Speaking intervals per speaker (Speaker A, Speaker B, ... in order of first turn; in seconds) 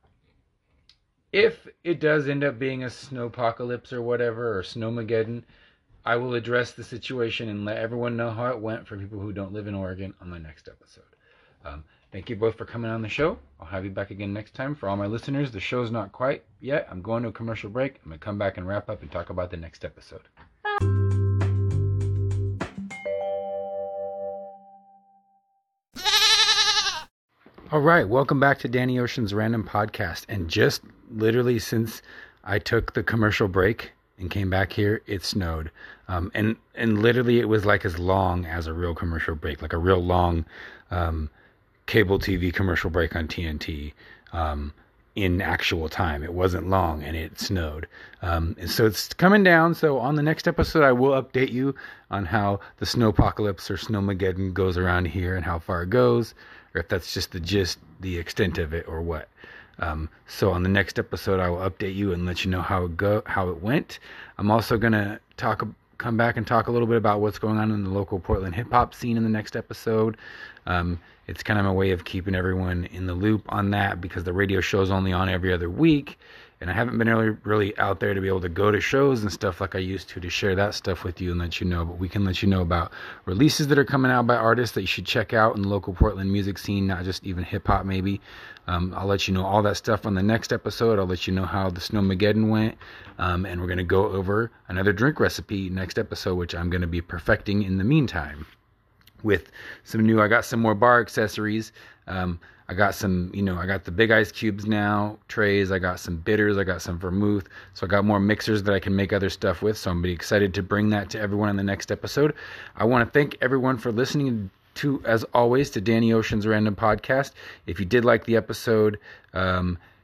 Speaker A: 1.3-5.5, 6.0-20.3, 27.7-41.3, 41.9-98.5, 99.2-119.8